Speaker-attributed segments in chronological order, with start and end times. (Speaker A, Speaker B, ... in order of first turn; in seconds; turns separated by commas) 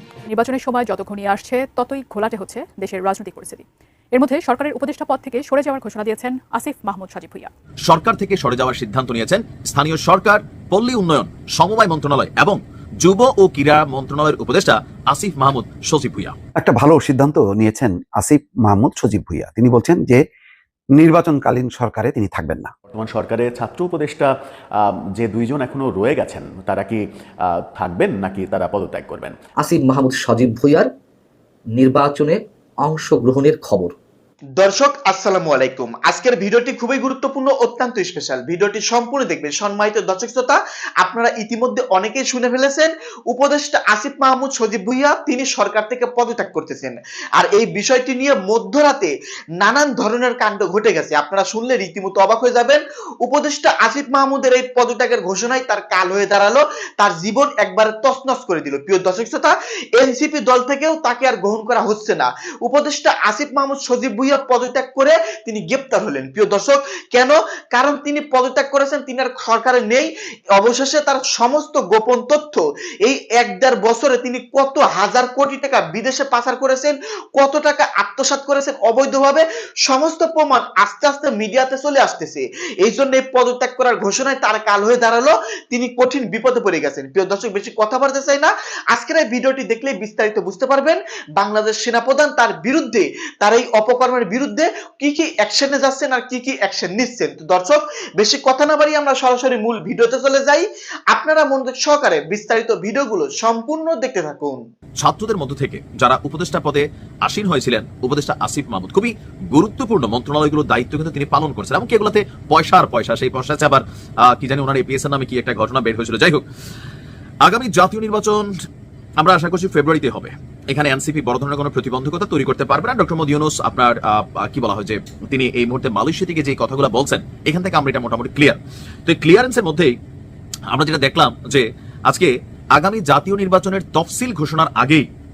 Speaker A: 0.3-7.5, Speaker B: 7.9-16.4, Speaker C: 16.6-20.2, Speaker C: 21.0-22.7, Speaker D: 22.9-29.3, Speaker E: 29.6-30.9, Speaker E: 31.7-34.0, Speaker F: 34.6-104.6, Speaker B: 105.0-116.4, Speaker B: 117.4-118.5, Speaker B: 119.2-129.9, Speaker B: 130.7-135.1